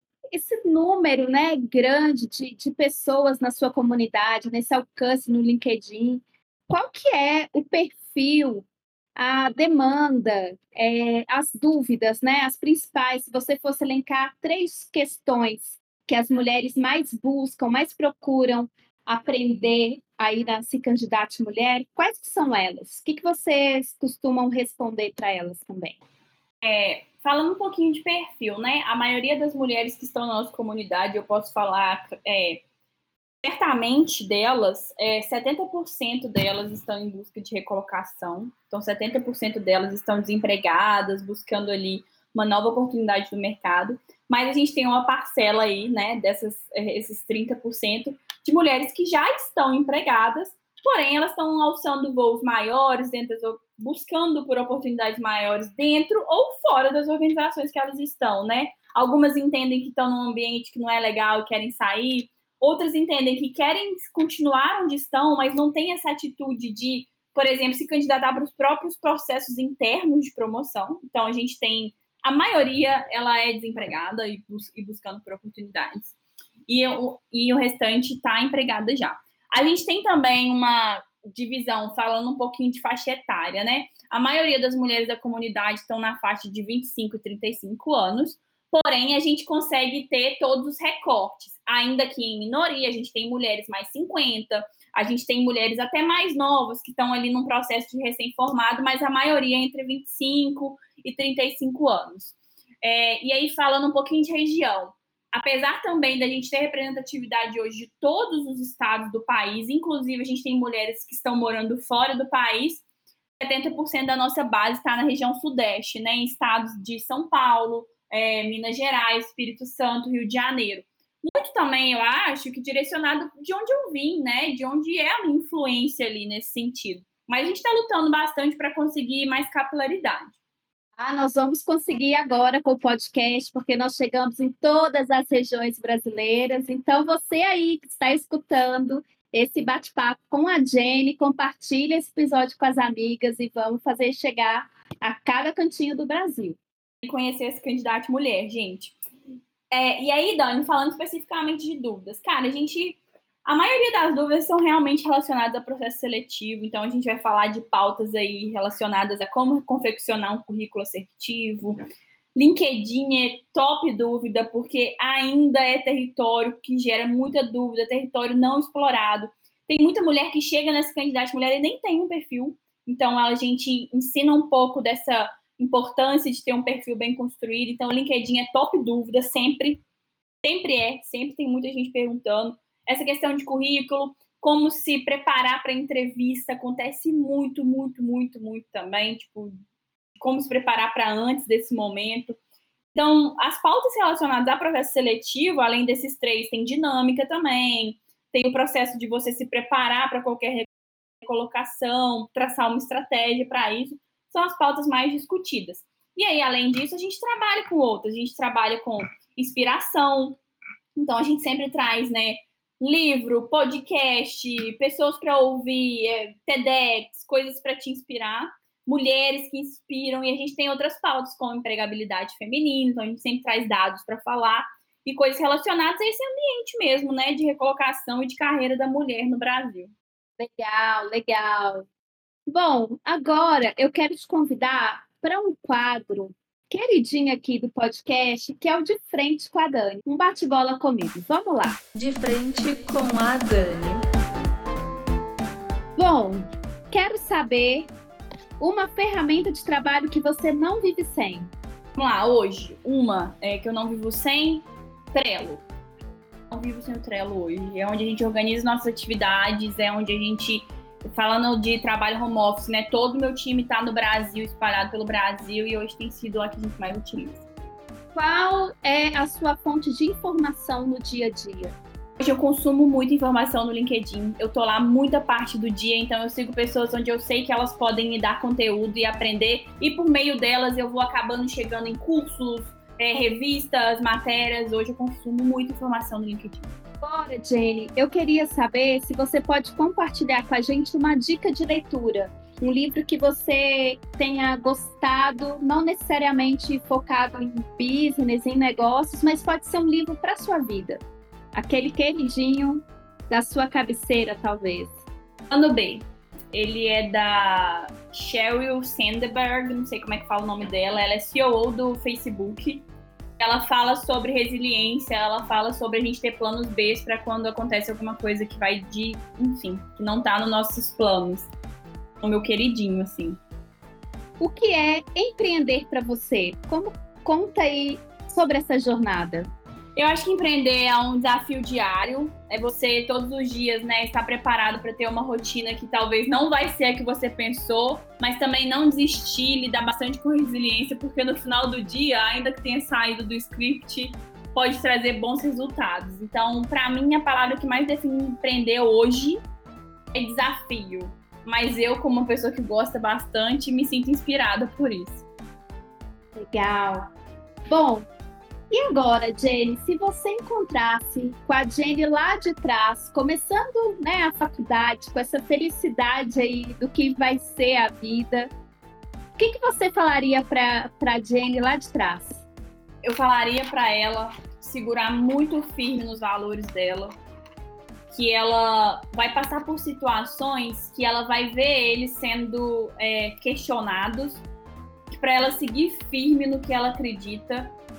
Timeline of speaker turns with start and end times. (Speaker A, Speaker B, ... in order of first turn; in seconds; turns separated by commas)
Speaker A: 0.3-26.0, Speaker B: 26.6-32.6, Speaker B: 33.4-76.1, Speaker B: 76.7-112.8, Speaker B: 113.4-130.4, Speaker A: 131.0-146.6, Speaker B: 147.0-149.0, Speaker B: 149.7-161.8, Speaker B: 162.3-179.8, Speaker B: 180.4-189.5, Speaker B: 190.2-192.4, Speaker B: 192.9-200.7, Speaker B: 201.2-210.4, Speaker B: 210.9-229.9, Speaker A: 230.4-231.9, Speaker A: 232.5-241.8, Speaker C: 241.9-244.0, Speaker A: 246.0-247.9, Speaker A: 248.6-251.5, Speaker B: 251.9-255.6, Speaker B: 256.5-267.4, Speaker A: 268.1-271.8, Speaker B: 272.2-286.7, Speaker A: 287.0-301.0, Speaker A: 301.5-305.0, Speaker B: 305.5-312.9, Speaker B: 313.4-321.5, Speaker B: 322.2-323.4, Speaker A: 324.4-329.5, Speaker B: 330.0-349.4, Speaker B: 350.1-355.2, Speaker A: 356.4-357.1, Speaker A: 357.7-358.1, Speaker A: 358.7-368.5, Speaker A: 369.4-372.4, Speaker B: 373.0-377.1, Speaker B: 378.1-384.4, Speaker B: 385.1-387.7